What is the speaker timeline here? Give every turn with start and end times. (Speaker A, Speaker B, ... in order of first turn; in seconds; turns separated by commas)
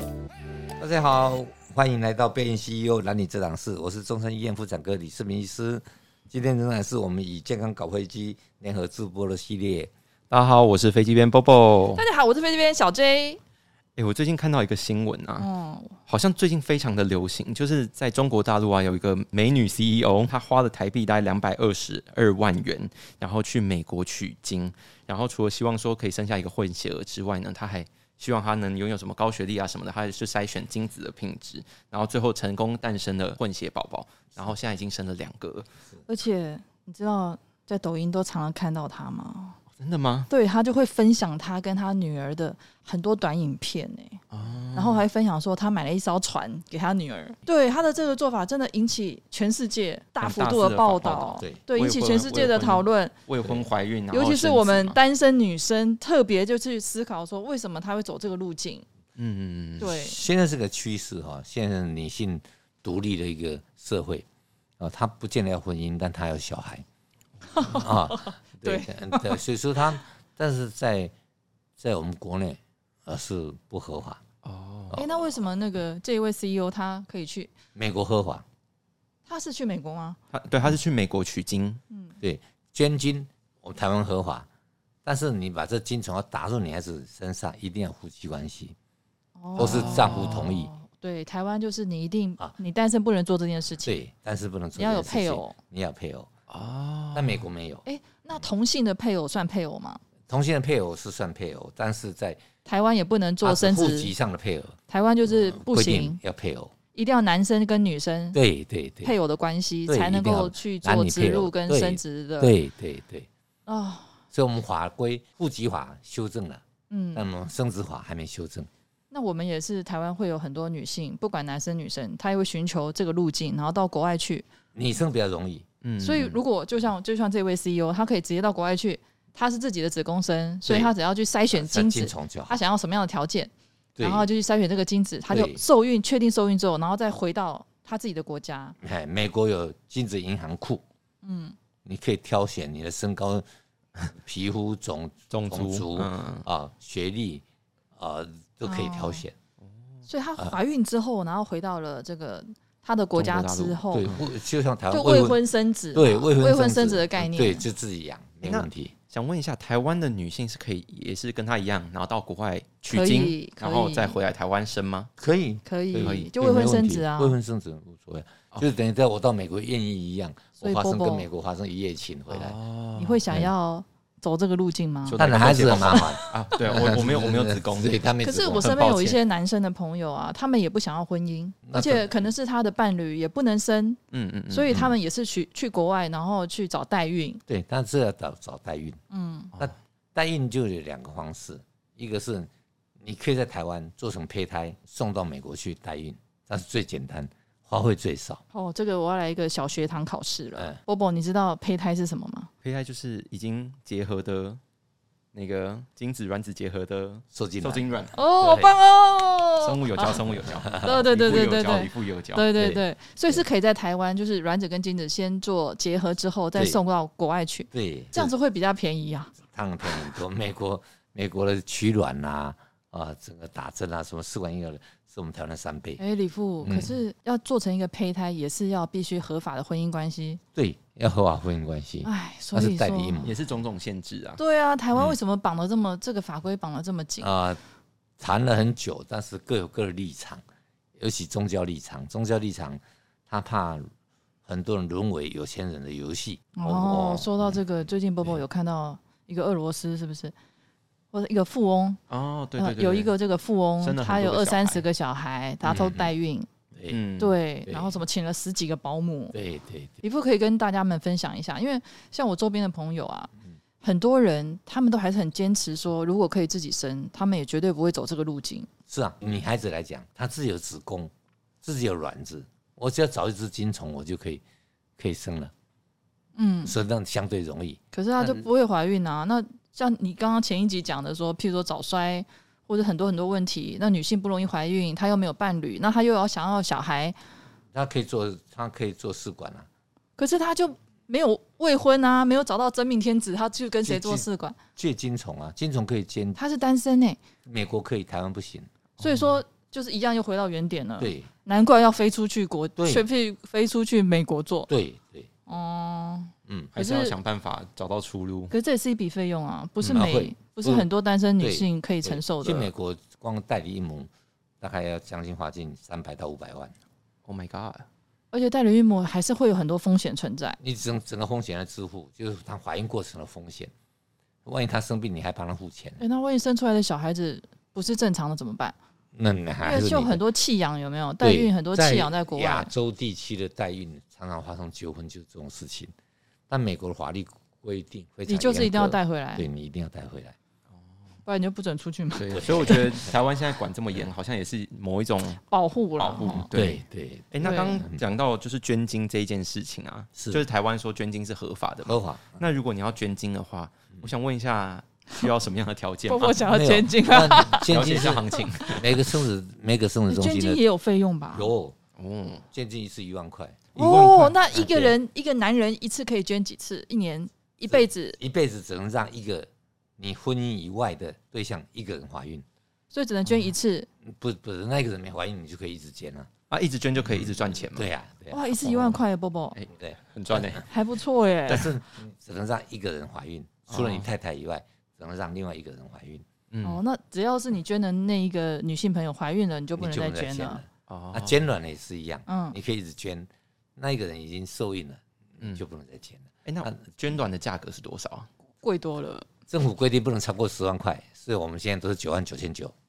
Speaker A: 0.8-9.9, Speaker B: 10.3-12.0, Speaker C: 11.9-13.4, Speaker B: 14.0-15.5, Speaker C: 15.4-16.0, Speaker B: 16.1-35.7, Speaker C: 36.1-39.6, Speaker B: 39.8-40.3, Speaker C: 40.3-44.2, Speaker B: 44.3-45.1, Speaker C: 44.7-53.1, Speaker B: 50.2-55.0, Speaker C: 54.1-58.9, Speaker B: 59.2-59.9, Speaker C: 59.8-60.2, Speaker A: 59.8-64.3, Speaker A: 64.8-66.8, Speaker C: 67.5-69.4, Speaker A: 67.6-71.1, Speaker A: 71.8-74.2, Speaker B: 74.4-75.0, Speaker C: 75.0-77.5, Speaker A: 77.8-78.5, Speaker C: 79.3-80.2, Speaker B: 80.3-81.8, Speaker A: 82.2-84.5, Speaker A: 85.0-88.8, Speaker C: 89.4-94.0, Speaker B: 89.6-90.4, Speaker A: 89.6-90.7, Speaker A: 93.8-96.3, Speaker C: 94.8-95.6, Speaker B: 96.5-97.4, Speaker A: 97.1-97.8, Speaker C: 97.8-100.0, Speaker A: 100.3-102.4, Speaker C: 102.7-104.1, Speaker A: 103.4-106.7, Speaker C: 104.9-106.2, Speaker C: 106.9-108.4, Speaker A: 108.3-109.2, Speaker C: 109.0-112.6, Speaker A: 109.9-113.3, Speaker C: 113.7-114.2, Speaker A: 114.3-116.6, Speaker C: 116.9-117.3, Speaker A: 117.2-118.7, Speaker C: 119.1-124.5, Speaker A: 124.8-125.7, Speaker B: 125.8-126.4, Speaker C: 126.0-138.8, Speaker A: 131.5-132.6, Speaker A: 134.0-134.3, Speaker A: 135.3-135.6, Speaker A: 138.8-140.8, Speaker C: 141.2-141.6, Speaker A: 141.8-143.4, Speaker A: 144.1-147.4, Speaker B: 145.3-146.5, Speaker A: 148.0-149.3, Speaker C: 148.6-149.2, Speaker C: 150.1-154.1, Speaker B: 153.2-153.8, Speaker A: 153.9-155.4, Speaker C: 154.9-157.7, Speaker A: 155.9-158.9, Speaker B: 158.4-165.1, Speaker C: 162.9-164.2, Speaker A: 165.2-172.6, Speaker C: 165.7-167.4, Speaker C: 170.6-171.3, Speaker B: 172.3-173.2, Speaker C: 173.0-176.3, Speaker B: 175.1-179.2, Speaker A: 175.2-178.8, Speaker C: 178.2-184.0, Speaker A: 181.7-182.3, Speaker B: 184.1-184.7, Speaker C: 184.5-187.4, Speaker A: 184.7-185.0, Speaker A: 187.5-189.0, Speaker C: 189.1-189.5, Speaker A: 189.6-192.5, Speaker A: 193.0-198.4, Speaker C: 198.5-202.5, Speaker B: 202.6-204.6, Speaker B: 205.3-208.2, Speaker A: 207.3-208.8, Speaker C: 208.1-219.3, Speaker B: 209.6-212.5, Speaker A: 210.7-211.1, Speaker A: 212.6-213.4, Speaker A: 217.7-218.3, Speaker A: 219.5-226.0, Speaker C: 226.0-230.4, Speaker A: 226.6-227.0, Speaker A: 230.6-233.4, Speaker C: 232.0-233.2, Speaker B: 233.2-234.4, Speaker C: 234.4-237.3, Speaker A: 237.2-237.6, Speaker A: 238.2-240.4, Speaker A: 241.0-243.9, Speaker A: 244.5-247.6, Speaker C: 246.6-250.3, Speaker C: 251.1-252.0, Speaker B: 252.1-253.1, Speaker C: 252.6-256.5, Speaker B: 253.8-254.8, Speaker B: 255.7-255.9, Speaker A: 255.7-256.1, Speaker A: 256.7-257.0, Speaker B: 256.9-257.4, Speaker C: 257.2-259.4, Speaker A: 257.7-258.0, Speaker A: 259.3-260.0, Speaker C: 260.0-263.3, Speaker C: 263.8-268.7, Speaker A: 268.9-271.1, Speaker A: 271.6-274.4, Speaker A: 275.0-275.5, Speaker C: 276.4-276.8, Speaker A: 276.6-278.4, Speaker C: 277.9-287.2, Speaker A: 287.7-289.7, Speaker C: 290.2-294.6, Speaker A: 293.8-296.4, Speaker C: 296.4-297.2, Speaker A: 297.5-298.7, Speaker C: 299.0-304.7, Speaker B: 299.0-299.4, Speaker A: 301.0-301.3, Speaker A: 302.8-303.1, Speaker A: 304.7-305.3, Speaker C: 305.5-307.1, Speaker A: 306.5-306.7, Speaker B: 306.7-308.5, Speaker C: 308.5-312.7, Speaker A: 309.8-314.1, Speaker A: 314.6-316.7, Speaker B: 317.2-317.9, Speaker C: 318.3-320.6, Speaker A: 320.6-323.7, Speaker A: 324.4-326.0, Speaker C: 326.0-328.8, Speaker A: 329.1-330.2, Speaker C: 329.6-332.7, Speaker A: 331.2-335.9, Speaker A: 336.5-340.4, Speaker C: 338.3-339.5, Speaker C: 341.2-342.9, Speaker B: 342.1-345.4, Speaker A: 342.3-343.1, Speaker C: 345.5-346.5, Speaker B: 346.0-356.5, Speaker A: 346.3-348.0, Speaker C: 347.4-347.8, Speaker A: 350.2-350.4, Speaker A: 351.9-352.4, Speaker C: 356.1-357.8, Speaker A: 356.5-360.6, Speaker B: 357.5-358.9, Speaker C: 360.1-361.5, Speaker A: 361.3-361.8, Speaker B: 362.0-362.4, Speaker A: 362.5-363.7, Speaker B: 363.8-364.5, Speaker C: 363.8-368.2, Speaker A: 364.6-365.0, Speaker A: 367.7-369.5, Speaker A: 370.0-372.4, Speaker C: 372.9-373.9, Speaker A: 374.1-376.3, Speaker B: 376.5-377.9, Speaker A: 377.1-379.0, Speaker C: 378.3-379.6, Speaker B: 379.5-380.7, Speaker A: 379.7-380.6, Speaker C: 380.7-381.8, Speaker A: 381.5-386.2, Speaker B: 383.7-384.1, Speaker B: 386.5-386.8, Speaker C: 386.6-390.6, Speaker A: 389.8-396.8, Speaker B: 390.9-391.4, Speaker C: 392.3-392.6, Speaker B: 396.4-398.3, Speaker C: 398.6-399.3, Speaker A: 399.5-402.7